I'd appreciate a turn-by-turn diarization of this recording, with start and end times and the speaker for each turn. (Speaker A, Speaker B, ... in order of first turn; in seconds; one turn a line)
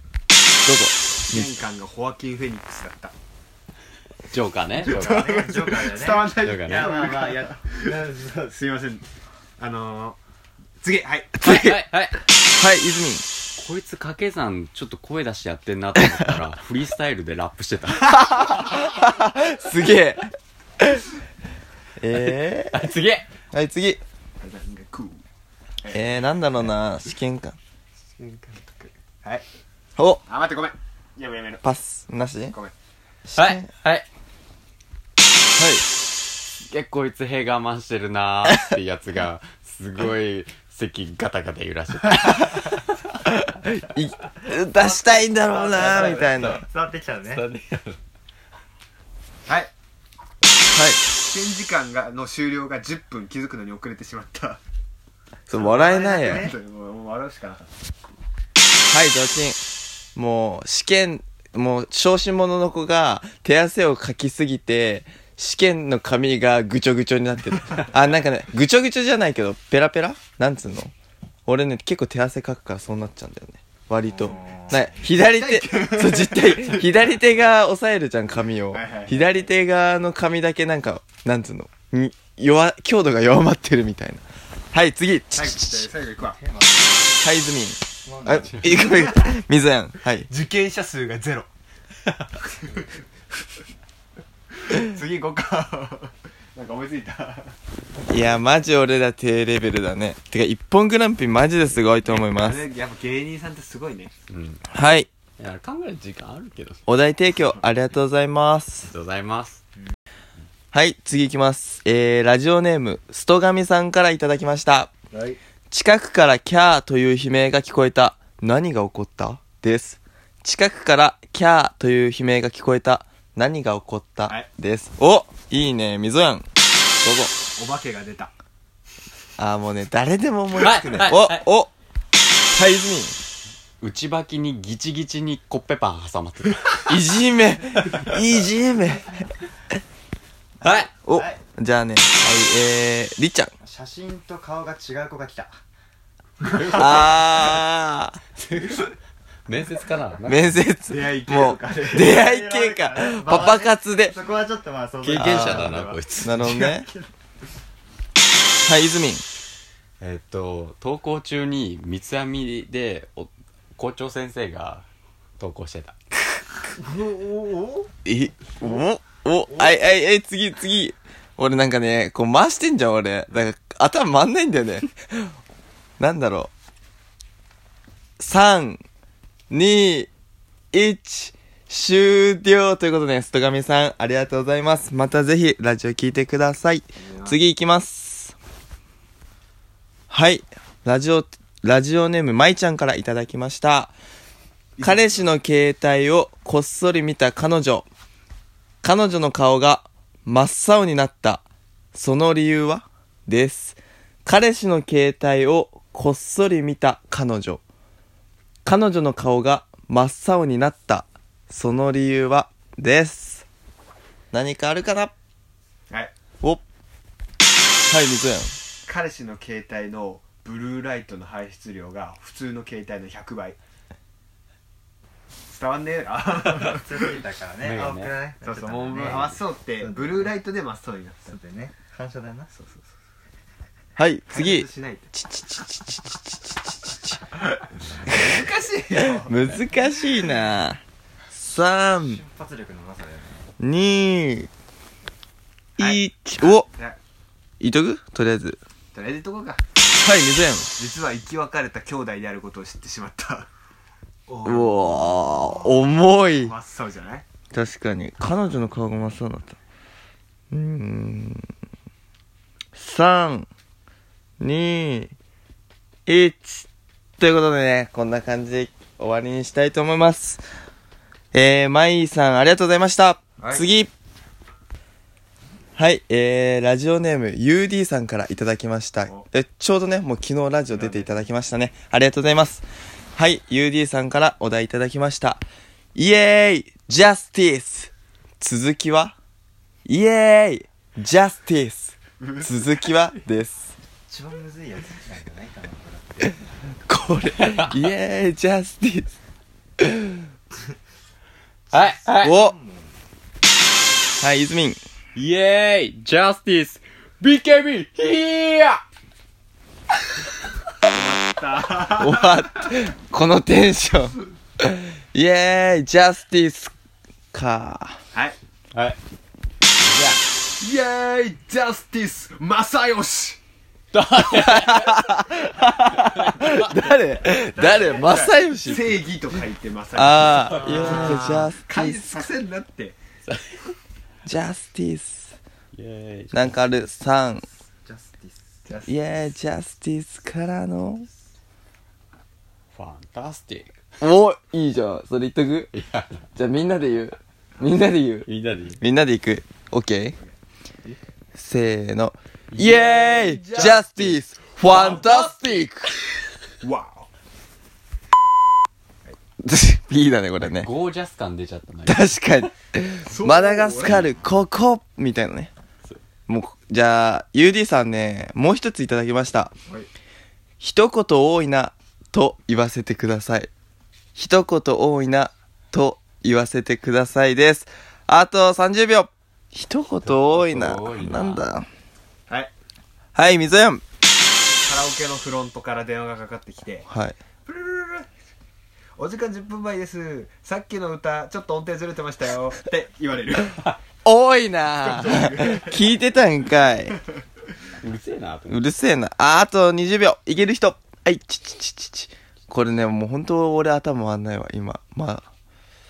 Speaker A: 0.6-1.5
Speaker B: 1.2-3.1
Speaker C: 4.3-5.3
Speaker D: 4.8-8.6
Speaker B: 4.8-9.0
Speaker C: 6.4-7.0
Speaker B: 9.6-10.2
Speaker B: 10.8-11.4
Speaker A: 11.4-11.8
Speaker C: 11.4-12.2
Speaker A: 12.5-13.2
Speaker C: 13.6-18.2
Speaker A: 18.1-21.0
Speaker A: 22.0-22.8
Speaker C: 22.1-23.3
Speaker A: 23.5-24.0
Speaker B: 24.4-25.2
Speaker B: 25.8-26.2
Speaker A: 25.9-27.6
Speaker B: 28.2-29.4
Speaker A: 30.0-30.2
Speaker B: 30.3-31.6
Speaker A: 31.6-32.5
Speaker A: 33.3-33.7
Speaker C: 33.3-34.0
Speaker A: 35.5-35.8
Speaker C: 36.7-42.8
Speaker A: 43.2-46.6
Speaker C: 44.8-46.6
Speaker D: 45.5-47.5
Speaker C: 47.2-48.0
Speaker A: 50.7-51.0
Speaker B: 51.2-54.6
Speaker A: 55.5-56.5
Speaker B: 55.5-57.6
Speaker D: 55.6-56.5
Speaker A: 58.9-59.6
Speaker A: 60.1-70.9
Speaker A: 71.5-85.9
Speaker D: 74.1-74.8
Speaker B: 75.0-77.0
Speaker B: 78.7-79.1
Speaker B: 85.3-86.4
Speaker D: 86.3-87.1
Speaker A: 87.2-90.3
Speaker D: 88.0-88.9
Speaker B: 88.7-89.3
Speaker B: 90.2-91.5
Speaker B: 92.0-92.9
Speaker B: 94.6-97.5
Speaker A: 98.1-102.7
Speaker B: 102.0-104.1
Speaker C: 104.3-104.6
Speaker A: 104.7-105.1
Speaker C: 105.4-106.8
Speaker A: 106.9-108.9
Speaker C: 108.9-109.6
Speaker A: 110.7-114.9
Speaker B: 115.1-115.4
Speaker A: 115.7-126.5
Speaker A: 127.0-127.3
Speaker B: 127.5-128.3
Speaker A: 129.4-131.7
Speaker C: 130.6-131.4
Speaker B: 130.6-131.1
Speaker A: 132.5-133.2
Speaker C: 133.8-136.8
Speaker A: 136.8-139.2
Speaker C: 140.6-140.9
Speaker A: 141.0-143.5
Speaker D: 141.1-141.4
Speaker D: 143.6-145.6
Speaker B: 146.4-147.4
Speaker A: 146.7-148.2
Speaker C: 146.7-147.0
Speaker C: 148.4-148.9
Speaker C: 149.4-150.6
Speaker A: 150.2-154.1
Speaker B: 150.9-152.2
Speaker D: 151.9-157.1
Speaker C: 155.0-156.3
Speaker A: 155.1-156.9
Speaker A: 158.6-159.2
Speaker C: 160.0-164.8
Speaker C: 165.4-166.2
Speaker D: 166.8-167.9
Speaker A: 168.0-175.3
Speaker A: 176.0-176.5
Speaker A: 178.2-178.8
Speaker A: 179.5-180.1
Speaker A: 180.7-188.3
Speaker B: 187.0-187.4
Speaker A: 190.1-193.9
Speaker B: 194.8-195.2
Speaker A: 194.8-197.9
Speaker A: 198.8-207.6
Speaker A: 208.6-213.4
Speaker A: 214.3-215.1
Speaker A: 217.8-218.6
Speaker B: 218.8-223.6
Speaker B: 225.5-227.0
Speaker D: 226.4-230.3
Speaker C: 227.6-228.2
Speaker B: 228.4-231.3
Speaker C: 228.9-229.3
Speaker D: 231.2-232.5
Speaker B: 232.5-232.8
Speaker A: 234.0-237.4
Speaker B: 234.3-235.1
Speaker B: 238.0-239.6
Speaker A: 239.1-240.8
Speaker A: 241.3-242.2
Speaker D: 242.0-243.5
Speaker A: 243.6-244.5
Speaker A: 245.8-246.7
Speaker B: 245.8-247.0
Speaker A: 247.6-248.6
Speaker B: 248.9-249.6
Speaker A: 250.0-250.7
Speaker B: 250.8-253.5
Speaker B: 254.3-257.2
Speaker A: 254.4-256.5
Speaker A: 257.5-259.6
Speaker A: 260.5-261.5
Speaker A: 262.8-263.5
Speaker A: 264.4-265.1
Speaker A: 266.1-266.7
Speaker A: 267.2-270.4
Speaker A: 271.3-273.9
Speaker B: 273.4-273.7
Speaker A: 275.8-285.4
Speaker B: 280.7-281.2
Speaker A: 285.9-289.1
Speaker A: 289.9-293.7
Speaker B: 292.2-293.0
Speaker D: 294.1-296.4
Speaker A: 296.9-299.1
Speaker C: 297.4-297.7
Speaker A: 299.8-300.2
Speaker C: 301.7-302.3
Speaker D: 301.7-302.9
Speaker A: 302.2-302.6
Speaker A: 304.2-304.8
Speaker C: 305.1-308.8
Speaker B: 310.8-312.4
Speaker A: 312.0-316.7
Speaker A: 317.3-318.0
Speaker C: 318.7-319.0
Speaker C: 319.8-320.2
Speaker B: 320.6-323.4
Speaker C: 323.9-325.2
Speaker A: 324.3-329.1
Speaker C: 325.9-326.9
Speaker B: 327.5-333.0
Speaker A: 329.9-332.1
Speaker C: 330.5-331.3
Speaker C: 333.2-333.7
Speaker A: 334.2-335.4
Speaker C: 335.7-336.6
Speaker A: 336.3-337.4
Speaker D: 337.8-338.6
Speaker B: 338.7-338.9
Speaker A: 338.9-341.1
Speaker C: 342.7-343.7
Speaker A: 344.0-345.7
Speaker C: 345.7-346.2
Speaker A: 346.4-348.3
Speaker C: 348.2-348.8
Speaker A: 348.8-350.2
Speaker A: 351.3-355.9
Speaker C: 352.5-353.8
Speaker B: 353.2-355.1
Speaker C: 354.8-355.6
Speaker B: 356.6-357.1
Speaker A: 359.4-360.7
Speaker C: 360.4-362.1
Speaker A: 361.8-365.5
Speaker B: 363.1-364.1
Speaker A: 366.3-369.5
Speaker A: 370.6-373.5
Speaker A: 374.1-381.7
Speaker C: 380.0-381.5
Speaker A: 383.1-383.8
Speaker B: 384.6-386.9
Speaker A: 386.9-387.1
Speaker B: 387.4-388.1
Speaker B: 389.0-393.7
Speaker A: 394.0-397.0
Speaker B: 394.8-395.9
Speaker C: 397.8-398.6
Speaker A: 398.5-405.2